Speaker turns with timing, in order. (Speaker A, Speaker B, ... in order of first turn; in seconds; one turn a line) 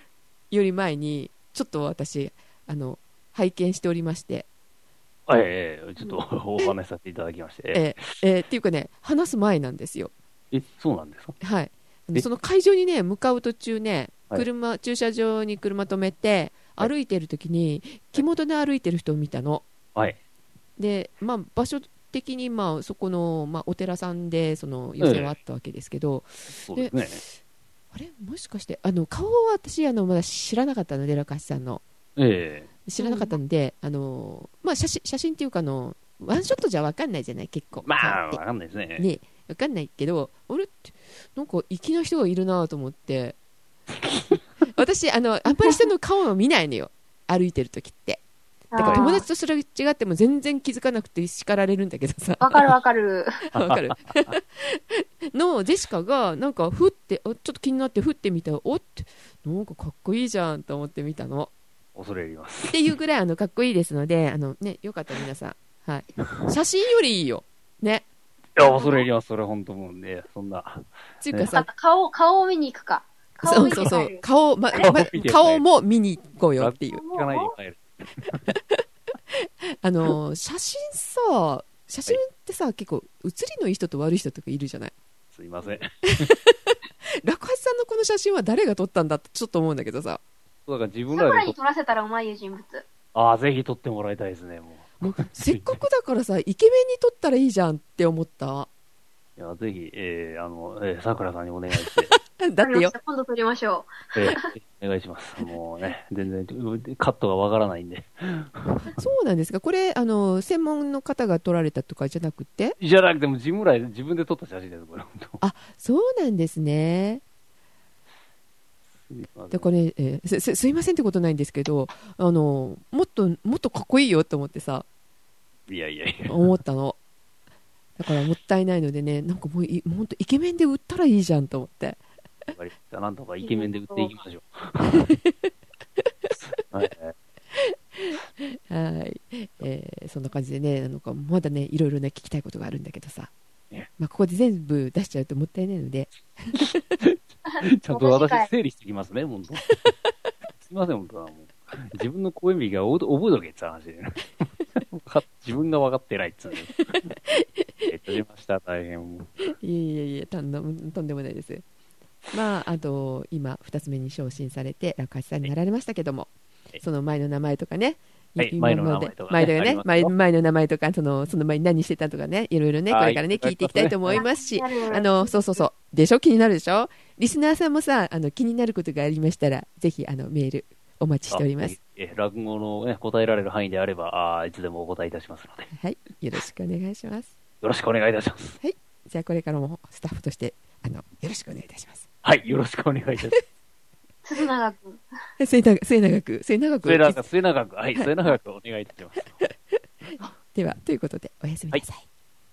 Speaker A: 0.5-4.5
Speaker B: 5.3-8.1
Speaker A: 7.7-10.1
Speaker B: 10.5-11.4
Speaker A: 11.4-19.7
Speaker A: 20.8-27.0
Speaker B: 25.0-25.3
Speaker B: 26.6-27.2
Speaker A: 27.9-31.8
Speaker B: 32.2-32.7
Speaker A: 32.9-38.4
Speaker C: 33.0-33.3
Speaker B: 37.8-39.1
Speaker A: 39.0-43.4
Speaker B: 44.0-44.4
Speaker A: 44.7-48.2
Speaker C: 48.7-49.2
Speaker B: 48.8-49.1
Speaker A: 48.8-52.7
Speaker C: 52.4-53.4
Speaker A: 53.5-61.5
Speaker B: 53.5-54.3
Speaker B: 62.0-62.8
Speaker A: 62.7-68.1
Speaker B: 68.6-71.5
Speaker C: 68.6-69.1
Speaker A: 71.2-71.7
Speaker C: 71.5-74.9
Speaker A: 73.4-77.0
Speaker B: 73.7-74.0
Speaker B: 74.8-75.6
Speaker B: 76.6-78.5
Speaker C: 76.9-77.5
Speaker A: 78.5-84.9
Speaker B: 85.3-86.3
Speaker A: 86.1-90.2
Speaker B: 90.7-91.5
Speaker C: 91.1-92.8
Speaker B: 93.2-95.8
Speaker A: 95.0-98.7
Speaker B: 99.4-102.2
Speaker A: 102.4-102.9
Speaker C: 102.6-104.5
Speaker B: 104.2-108.8
Speaker A: 108.7-112.8
Speaker B: 112.8-115.4
Speaker A: 115.4-117.2
Speaker B: 119.1-119.7
Speaker A: 119.5-124.9
Speaker B: 125.7-126.5
Speaker A: 126.3-127.0
Speaker A: 128.0-132.0
Speaker B: 132.5-135.1
Speaker C: 133.4-134.2
Speaker A: 134.9-135.5
Speaker A: 136.0-136.3
Speaker B: 136.4-137.2
Speaker A: 137.5-143.3
Speaker A: 144.0-146.9
Speaker B: 146.6-149.9
Speaker C: 147.5-148.5
Speaker B: 150.7-157.1
Speaker A: 156.6-157.9
Speaker B: 157.9-159.6
Speaker A: 159.6-161.6
Speaker A: 162.3-181.8
Speaker B: 168.4-170.1
Speaker B: 172.9-174.2
Speaker C: 174.1-175.3
Speaker B: 181.3-185.7
Speaker A: 185.7-187.3
Speaker B: 187.6-188.6
Speaker A: 188.6-192.1
Speaker B: 192.2-193.4
Speaker C: 194.2-195.0
Speaker A: 195.4-197.2
Speaker B: 196.8-199.4
Speaker A: 200.5-202.1